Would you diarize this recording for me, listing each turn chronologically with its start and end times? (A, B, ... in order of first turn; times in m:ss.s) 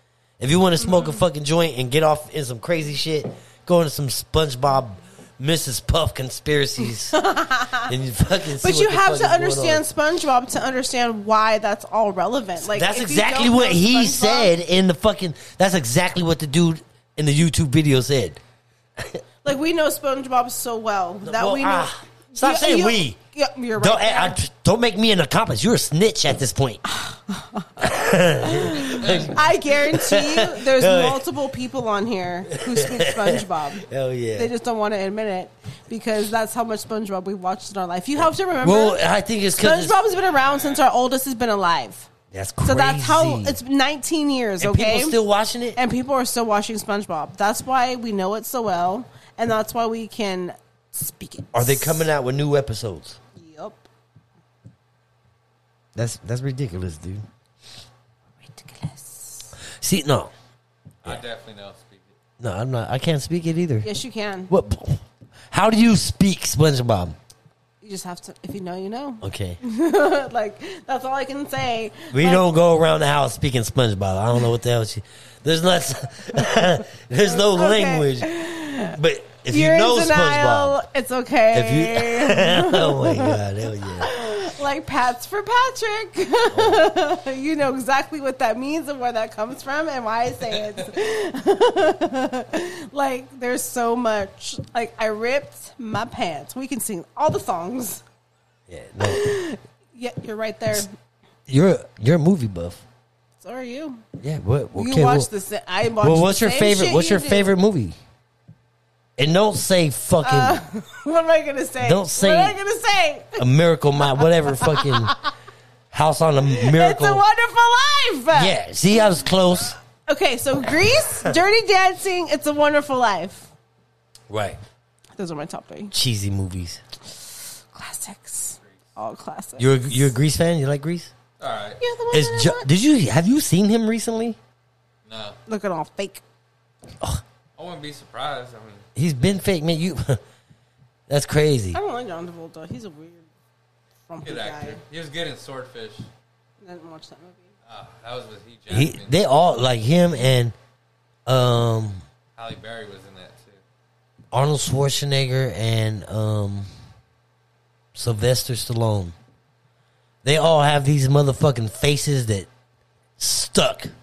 0:00.4-0:07.2 A
0:00.8-0:01.2 B
0:07.1-0:07.9 B
0:07.9-0:09.8 A
0:08.6-0:14.5 B
0:12.6-0:18.4 A
0:19.4-0:24.4 B
0:21.2-0:23.2 A
0:23.8-0:26.8 A
0:26.9-0:39.0 B
0:27.8-0:31.2 A
0:29.0-0:29.3 C
0:32.6-0:34.5 A
0:38.6-0:40.0 A
0:39.6-0:42.1 B
0:42.3-0:43.6 A
0:42.6-0:45.2 B
0:44.6-0:45.8 A
0:45.8-0:52.0 B
0:51.5-0:53.2 A
0:53.4-0:53.8 B
0:56.0-0:57.2 A
0:58.4-0:59.5 B
0:59.8-1:00.3 A
1:01.0-1:02.1 C
1:02.4-1:03.9 A
1:03.8-1:04.5 B
1:04.5-1:07.2 A
1:07.8-1:12.4 B
1:09.2-1:09.6 A
1:12.1-1:20.8 A
1:17.2-1:19.0 B
1:19.5-1:38.0 B
1:21.5-1:24.2 A
1:26.5-1:26.9 A
1:38.7-1:39.3 A
1:39.0-1:40.9 B
1:41.5-1:42.8 A
1:43.4-1:44.0 B
1:44.2-1:45.3 A
1:44.8-1:47.6 B
1:46.0-1:48.0 A
1:49.2-1:50.6 A
1:50.2-1:53.4 B
1:51.8-1:52.6 A
1:53.4-1:55.2 A
1:54.1-1:55.3 B
1:55.9-1:57.2 A
1:56.5-1:59.1 B
1:58.3-1:59.8 A
2:00.1-2:03.5 B
2:00.9-2:01.4 A
2:04.3-2:04.6 A
2:05.2-2:05.9 B
2:05.9-2:06.8 A
2:07.7-2:10.1 B
2:09.6-2:11.1 A
2:11.4-2:11.8 C
2:11.8-2:12.7 B
2:12.1-2:14.4 A
2:15.1-2:15.4 C
2:15.5-2:16.2 B
2:17.6-2:18.9 C
2:19.0-2:20.2 A
2:21.1-2:21.8 A
2:21.7-2:23.3 B
2:24.1-2:24.8 B
2:24.2-2:26.1 C
2:26.6-2:27.5 B
2:27.7-2:29.1 C
2:28.7-2:30.5 A
2:31.3-2:32.0 A
2:32.4-2:33.6 C
2:34.3-2:36.7 A
2:38.0-2:39.2 A
2:40.2-2:42.5 A
2:43.2-2:43.9 A